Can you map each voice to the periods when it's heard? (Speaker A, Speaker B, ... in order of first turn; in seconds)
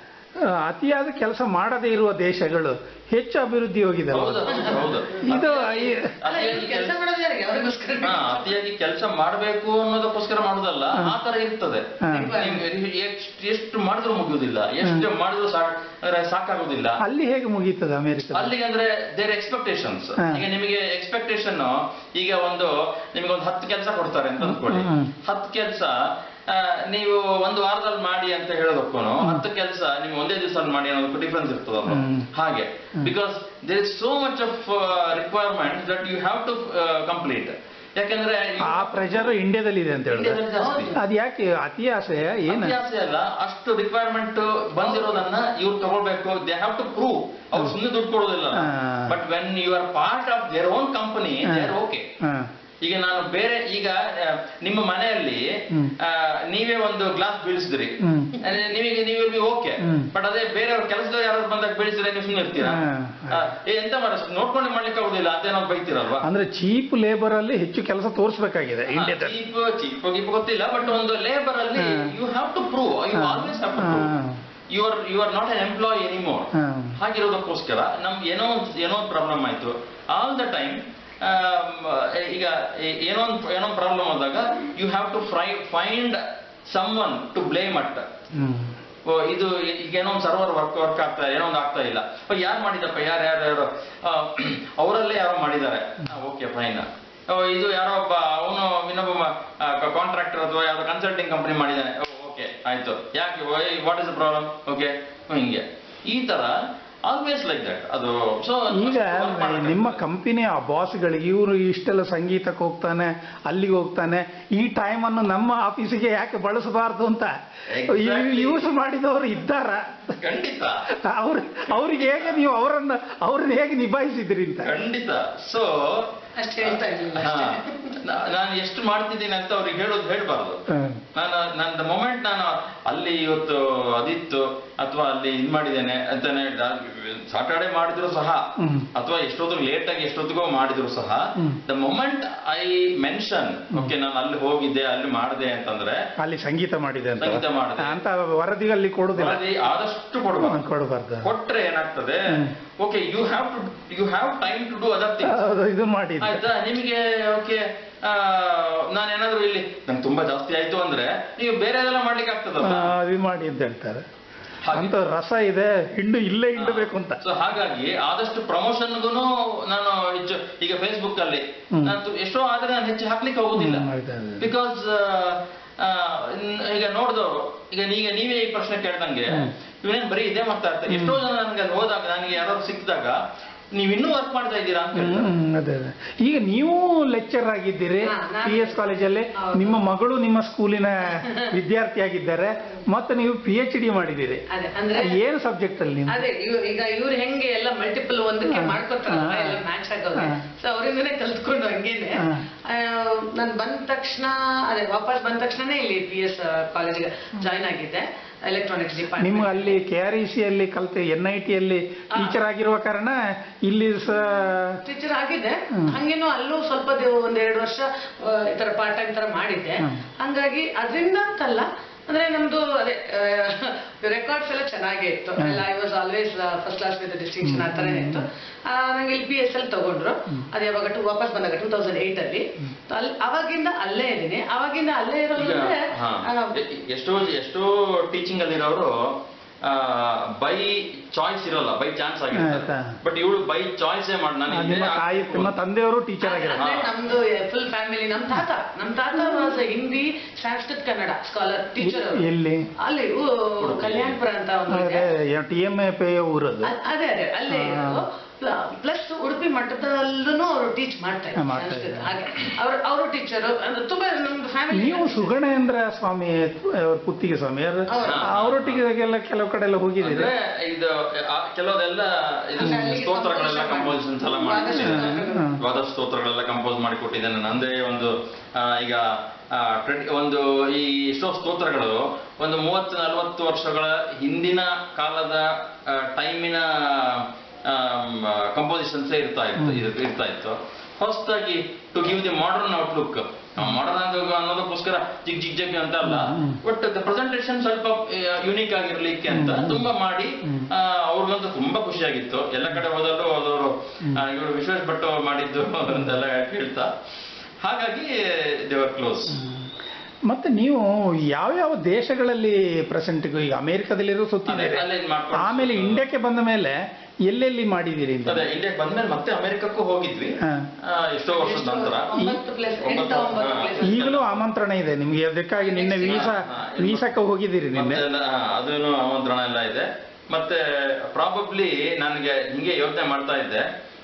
Speaker A: 0.5-6.1, 12.0-12.4, 17.0-18.5, 24.4-25.1, 31.9-32.3, 38.6-40.4, 40.9-42.8, 48.5-49.2, 51.5-52.5, 58.0-58.4, 59.8-60.1, 62.6-63.5, 66.2-69.4, 71.8-72.1, 73.1-74.4, 76.6-77.0, 88.4-88.8, 108.7-117.3, 117.8-120.2, 121.0-124.7, 130.7-131.0, 138.6-138.9, 146.2-149.4, 150.4-151.3, 155.2-156.5, 162.6-164.0, 164.7-167.2, 173.6-174.5, 180.9-181.2, 184.9-194.4, 194.9-196.2, 198.5-199.6, 209.2-214.8, 227.4-228.2, 242.3-242.9, 244.5-246.6, 249.1-249.5, 251.8-252.7, 254.7-256.7, 257.5-258.0, 261.4-262.1, 264.7-270.3, 272.6-273.0, 274.7-275.6, 289.6-289.8, 296.1-296.6, 299.3-299.9, 305.9-306.1, 309.3-309.7, 310.3-316.8, 317.3-318.4, 323.8-328.1
Speaker B: 4.1-6.9, 8.0-17.0, 18.3-25.9, 26.5-39.3, 40.1-40.9, 42.5-52.0, 52.8-55.5, 56.0-66.3, 68.9-74.1, 74.7-88.1, 89.1-106.5, 107.1-110.0, 117.7-118.7, 120.2-120.8, 121.9-122.3, 124.6-130.6, 131.1-138.4, 138.9-146.0, 147.2-148.0, 149.2-150.6, 151.2-155.4, 156.2-162.9, 164.6-164.9, 166.6-173.9, 174.4-183.2, 183.8-185.3, 235.4-245.6, 246.6-246.9, 253.6-254.2, 268.0-268.8, 270.0-306.9, 307.6-309.4, 314.5-316.0, 318.3-322.1, 322.8-324.4, 326.1-327.1, 327.7-333.6
Speaker C: 4.5-5.2, 6.2-8.6, 12.1-12.6, 40.5-41.0, 44.8-45.4, 126.3-127.9, 188.1-189.8, 191.2-191.5, 194.5-195.2, 196.1-209.8, 214.8-236.5, 246.2-252.2, 252.8-255.1, 256.6-265.3, 267.9-268.3, 272.6-275.5, 321.3-324.1, 325.6-326.3